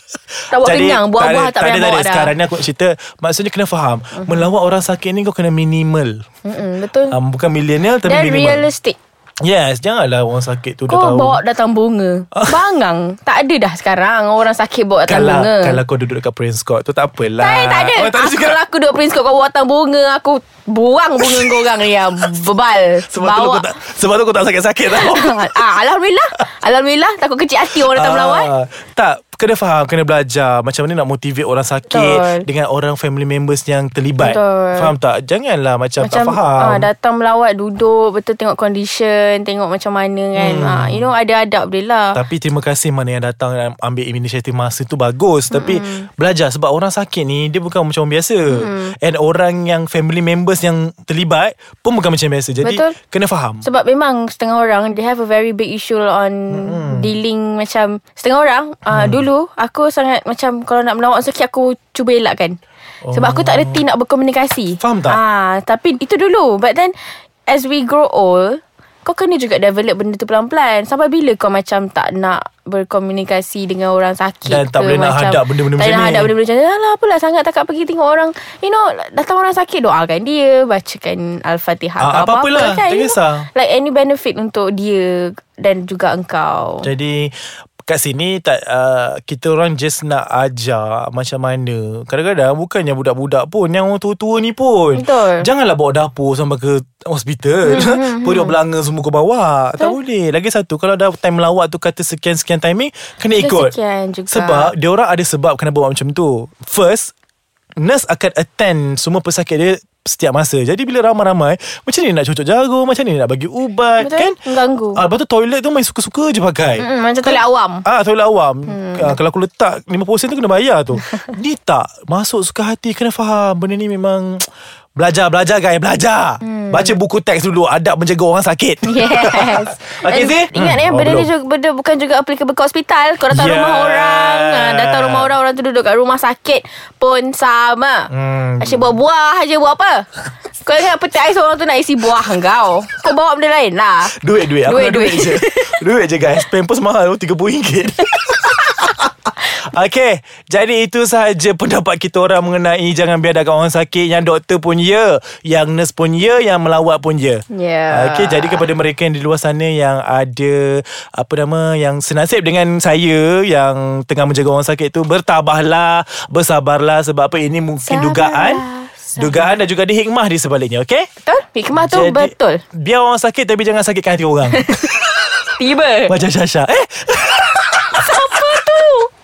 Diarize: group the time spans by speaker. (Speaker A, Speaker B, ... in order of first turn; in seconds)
Speaker A: 0.4-6.2, 7.1-8.7, 9.4-11.4, 12.3-12.6, 15.1-18.6, 21.2-22.4, 23.1-25.7, 27.7-36.9, 40.4-41.1, 42.1-53.6, 56.5-57.1, 58.9-59.2, 63.0-63.8, 64.8-65.2, 74.5-76.3, 82.0-83.5, 86.8-87.3, 87.9-103.7, 104.3-107.1, 107.8-114.4, 115.0-131.3, 133.3-135.3, 138.1-138.9, 144.0-168.7, 169.2-171.1, 171.8-174.8, 176.1-178.6
Speaker B: 0.5-2.3, 6.5-7.1, 8.1-9.0, 10.9-15.8, 17.4-23.6, 25.0-28.5, 31.9-32.4, 34.2-34.9, 36.1-42.1, 45.5-46.0, 48.5-48.9, 52.6-52.9, 53.6-62.6, 63.2-67.0, 67.5-86.9, 95.0-95.5, 97.7-98.6, 103.4-104.7, 114.0-115.0, 116.8-117.8, 118.7-119.1, 126.5-126.9, 128.9-138.0, 138.6-140.1, 140.6-144.1, 144.7-145.8, 157.5-158.6, 167.8-169.5, 171.2-172.6, 174.5-174.9, 175.6-176.1, 177.7-179.1